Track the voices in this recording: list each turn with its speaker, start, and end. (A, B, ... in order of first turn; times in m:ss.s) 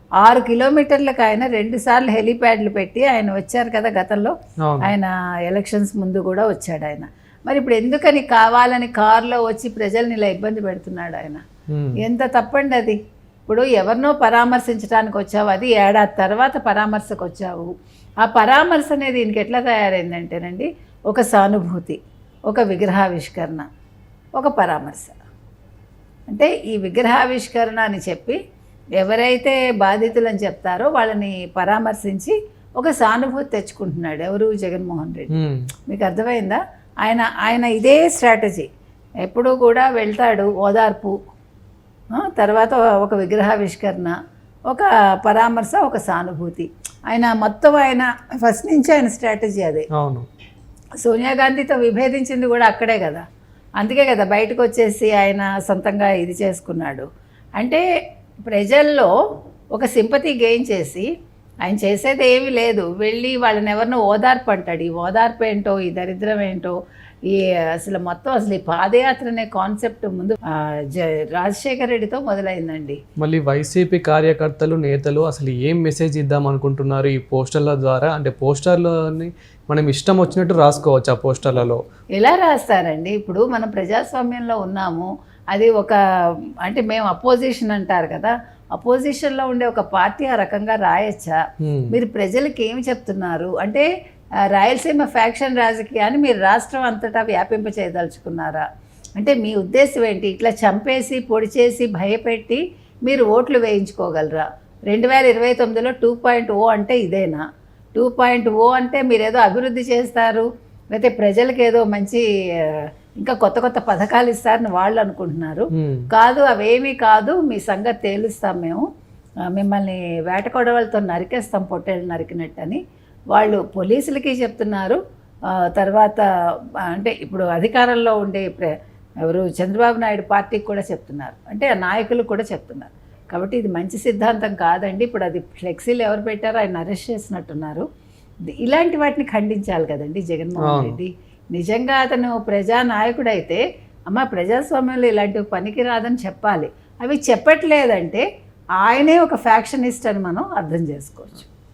0:00.2-0:11.4 A
0:04.6-0:04.9 B
0:11.7-0:12.0 B
0:12.0-0:17.7 A
0:18.2-0:22.0 A
0:22.5-0:23.6 A
0:24.4-0:25.2 A
0:26.3-0:28.4 A
0:29.0-0:35.3 A
0:35.3-0:35.6 B
0:35.9-0:38.7 A
0:39.2-0:41.1 A
0:42.1-0:44.1 A
0:44.7-0:49.8 A
0:49.9-0:50.2 B
0:51.0-0:53.2 A
0:53.8-0:57.0 A
0:57.6-0:57.8 A
0:58.4-0:59.1 A
0:59.7-1:01.1 A
1:01.6-1:06.7 A
1:07.3-1:13.0 A
1:13.2-1:21.8 B
1:22.2-1:26.0 A
1:26.6-1:31.4 A
1:31.6-1:31.9 B
1:31.9-1:33.8 A
1:34.5-1:38.6 A
1:39.2-1:47.4 A
1:47.9-1:58.8 A
1:55.7-1:56.0 B
1:59.5-2:02.8 A
2:03.3-2:05.0 A
2:05.5-2:06.2 A
2:06.9-2:17.8 A
2:18.5-2:28.2 A
2:20.6-2:21.0 B
2:28.8-2:31.5 A